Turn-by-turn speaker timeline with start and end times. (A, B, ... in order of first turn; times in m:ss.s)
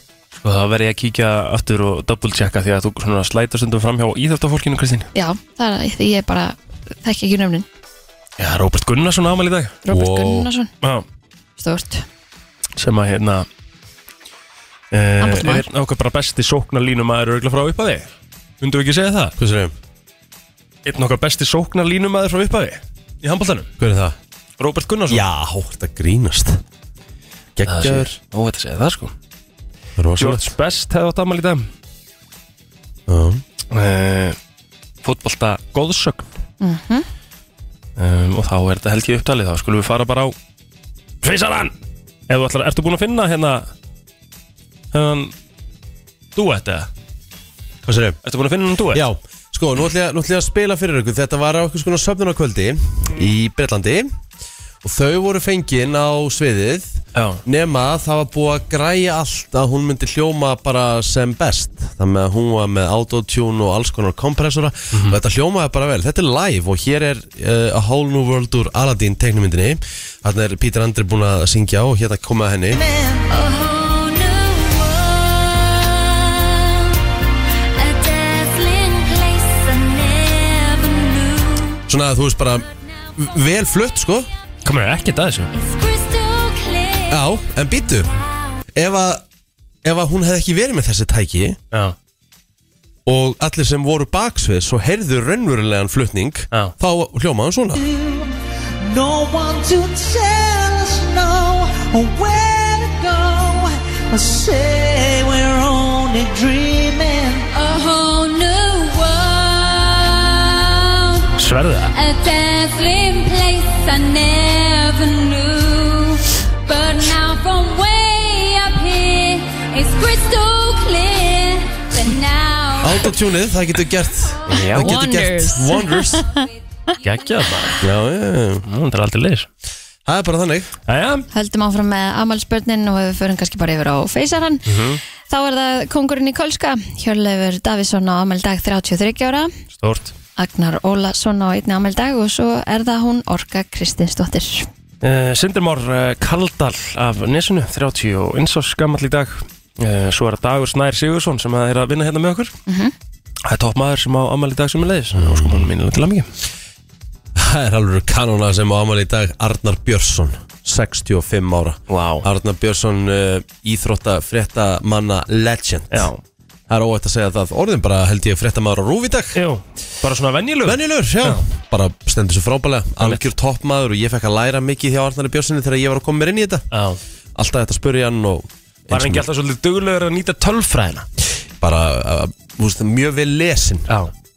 0:00.4-0:05.1 A
0:05.1-0:07.6 B
0:08.4-0:09.8 A
0:09.8-0:10.7 B
0:09.9-0:10.5 C
0:11.6-0:12.0 B
0:12.8-0:13.5 A
0:14.9-0:18.1 A
0:15.2-0:15.6 B
0:18.6-0:19.3 A
0:19.4-0:19.7 C
0:20.8-0:23.7 A
0:23.8-0:24.2 C
0:24.6-0:25.2 A
0:25.1-0:26.6 C
0:27.6-0:28.1 C
0:27.6-0:29.1 A
0:30.0-0:30.5 C
0:30.2-0:31.6 A
0:33.1-0:33.4 C
0:33.7-0:34.4 A
0:35.0-0:36.3 A
0:36.6-0:37.1 B
0:38.0-0:40.3 A
0:41.2-0:41.7 A
0:42.3-0:43.7 A
0:44.9-0:45.3 A
0:46.4-0:46.9 A
0:47.8-0:48.2 C
0:48.2-0:49.0 A
0:48.9-0:54.1 C
0:54.8-1:12.8 C
0:57.1-0:57.4 A
1:04.9-1:05.2 A
1:13.0-1:17.0 D
1:17.7-1:21.8 D
1:21.9-1:24.3 C
1:24.6-1:25.5 A
1:25.5-1:27.2 D
1:27.1-1:28.2 C
1:28.7-1:29.2 C
1:29.8-1:31.6 C
1:33.0-1:37.8 C
1:37.7-1:47.5 E
1:47.5-1:51.3 D
1:51.3-1:52.0 A
1:51.9-2:03.0 D
2:02.8-2:06.3 C
2:04.5-2:04.9 A
2:04.7-2:06.4 B
2:07.0-2:07.8 A
2:07.8-2:08.6 C
2:08.6-2:09.5 A
2:10.0-2:10.7 C
2:10.9-2:11.3 A
2:11.3-2:14.6 B
2:14.7-2:15.0 A
2:15.3-2:19.5 B
2:19.8-2:20.1 A
2:20.4-2:24.7 B
2:25.0-2:32.5 A
2:32.7-2:32.9 B
2:33.4-2:36.3 A
2:35.1-2:35.7 C
2:37.3-2:46.1 C
2:41.9-2:42.2 A
2:45.9-2:46.2 A
2:46.7-2:49.4 C
2:49.3-2:51.4 A
2:50.6-2:56.6 C
2:56.7-2:57.0 A
2:57.4-2:59.2 C
2:58.9-3:01.1 A
3:01.6-3:03.9 C